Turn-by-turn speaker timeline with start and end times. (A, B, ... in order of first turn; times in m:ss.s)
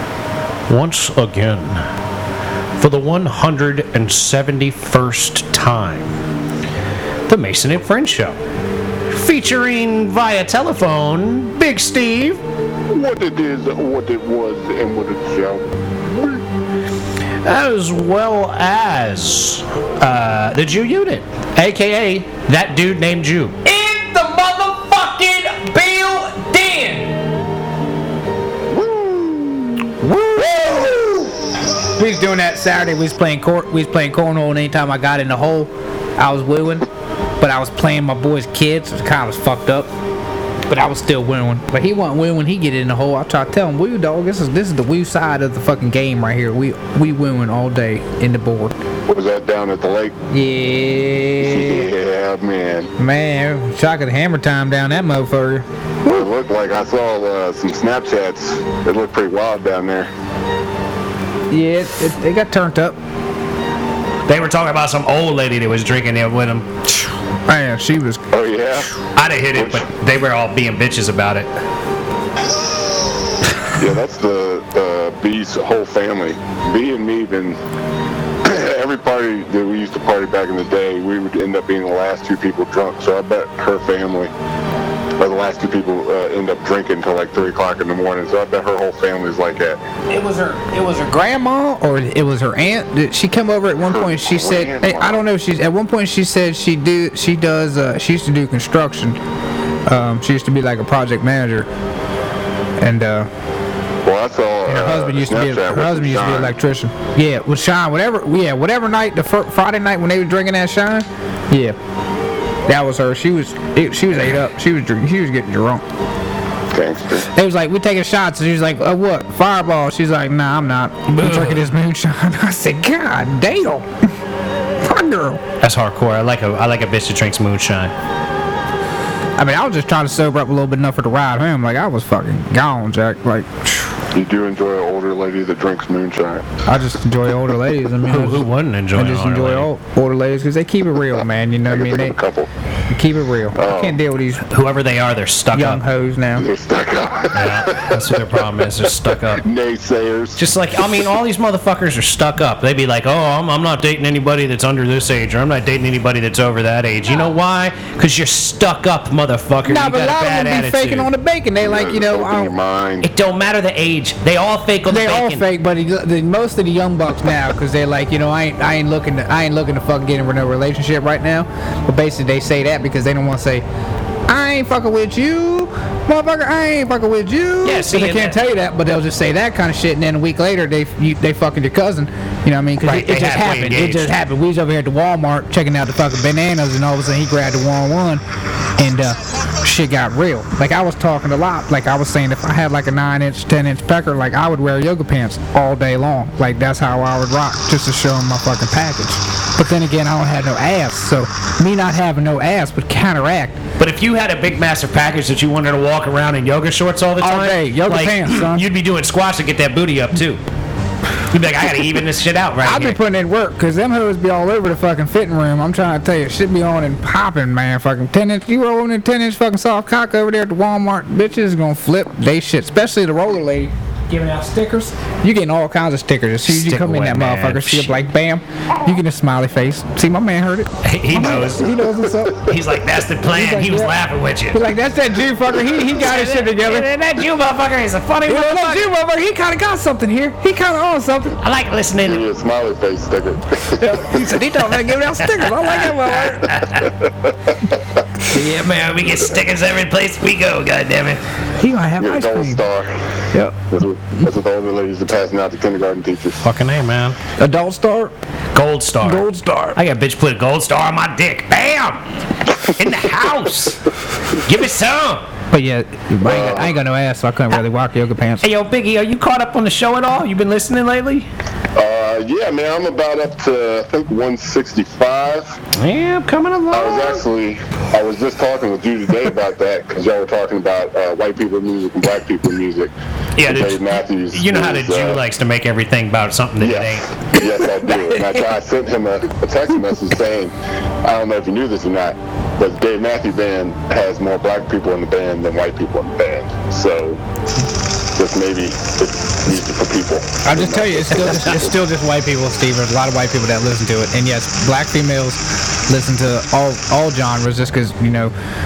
0:00.7-0:01.8 A
0:02.8-0:06.2 A
0:07.3-0:08.4 A
0:09.1-0:12.4 A
0:12.9-0:16.4 B
0:17.4-0:23.7 A
0:23.7-0:27.1 C
0:28.7-0:29.9 B
0:30.0-0:31.3 C
0:30.4-0:31.0 B
0:32.0-0:36.9 C
0:37.4-0:39.9 C
0:40.7-0:48.8 C
0:49.1-0:50.2 B
0:50.3-0:51.9 C
0:51.4-0:52.9 B
0:53.0-0:56.3 C
0:56.0-1:00.1 B
1:01.5-1:03.0 C
1:04.3-1:06.7 A
1:07.5-1:08.2 C
1:08.3-1:08.9 B
1:09.1-1:11.5 A
1:09.6-1:09.9 B
1:13.7-1:17.6 B
1:18.4-1:24.3 B
1:25.2-1:29.8 B
1:30.1-1:39.2 C
1:33.8-1:35.2 B
1:39.9-1:41.7 C
1:42.8-1:43.3 C
1:44.0-1:46.6 B
1:44.7-1:51.8 C
1:52.7-1:55.8 C
1:56.7-1:57.3 B
1:57.3-2:03.9 C
2:01.1-2:01.6 A
2:04.8-2:05.4 C
2:05.6-2:07.9 A
2:09.4-2:13.9 C
2:14.1-2:16.4 B
2:16.7-2:22.2 C
2:18.0-2:19.7 A
2:21.7-2:22.5 B
2:22.9-2:24.4 C
2:23.5-2:24.0 B
2:24.5-2:25.8 A
2:25.5-2:26.5 C
2:26.4-2:28.4 B
2:27.3-2:29.4 A
2:29.3-2:30.4 B
2:30.4-2:41.1 A
2:39.7-2:42.5 C
2:41.6-2:43.1 B
2:43.0-2:45.4 A
2:44.9-2:53.6 C
2:54.3-3:08.2 C
2:57.6-2:58.4 A
3:02.8-3:04.1 A
3:08.8-3:23.6 C
3:23.8-3:30.4 A
3:27.2-3:28.7 C
3:31.2-3:33.0 A
3:32.6-3:52.5 C
3:46.4-3:47.9 A
3:50.8-3:51.7 A
3:52.4-3:54.6 A
3:53.2-3:54.0 C
3:54.5-3:56.9 C
3:55.9-3:58.9 A
3:58.2-4:01.4 C
4:01.4-4:02.2 A
4:02.0-4:04.0 B
4:03.7-4:06.6 C
4:05.2-4:07.0 A
4:08.2-4:11.2 A
4:11.6-4:12.6 C
4:12.0-4:16.4 B
4:16.4-4:17.2 A
4:17.4-4:18.1 C
4:18.5-4:22.0 A
4:19.0-4:19.8 C
4:22.5-4:25.2 A
4:25.5-4:28.4 C
4:26.2-4:26.7 B
4:28.4-4:31.3 A
4:31.8-4:35.6 B
4:35.8-4:37.2 A
4:36.7-4:42.9 B
4:43.4-4:47.4 A
4:43.4-4:45.2 B
4:46.6-4:57.2 B
4:48.1-4:48.4 A
4:58.2-5:01.6 B
5:00.4-5:08.3 C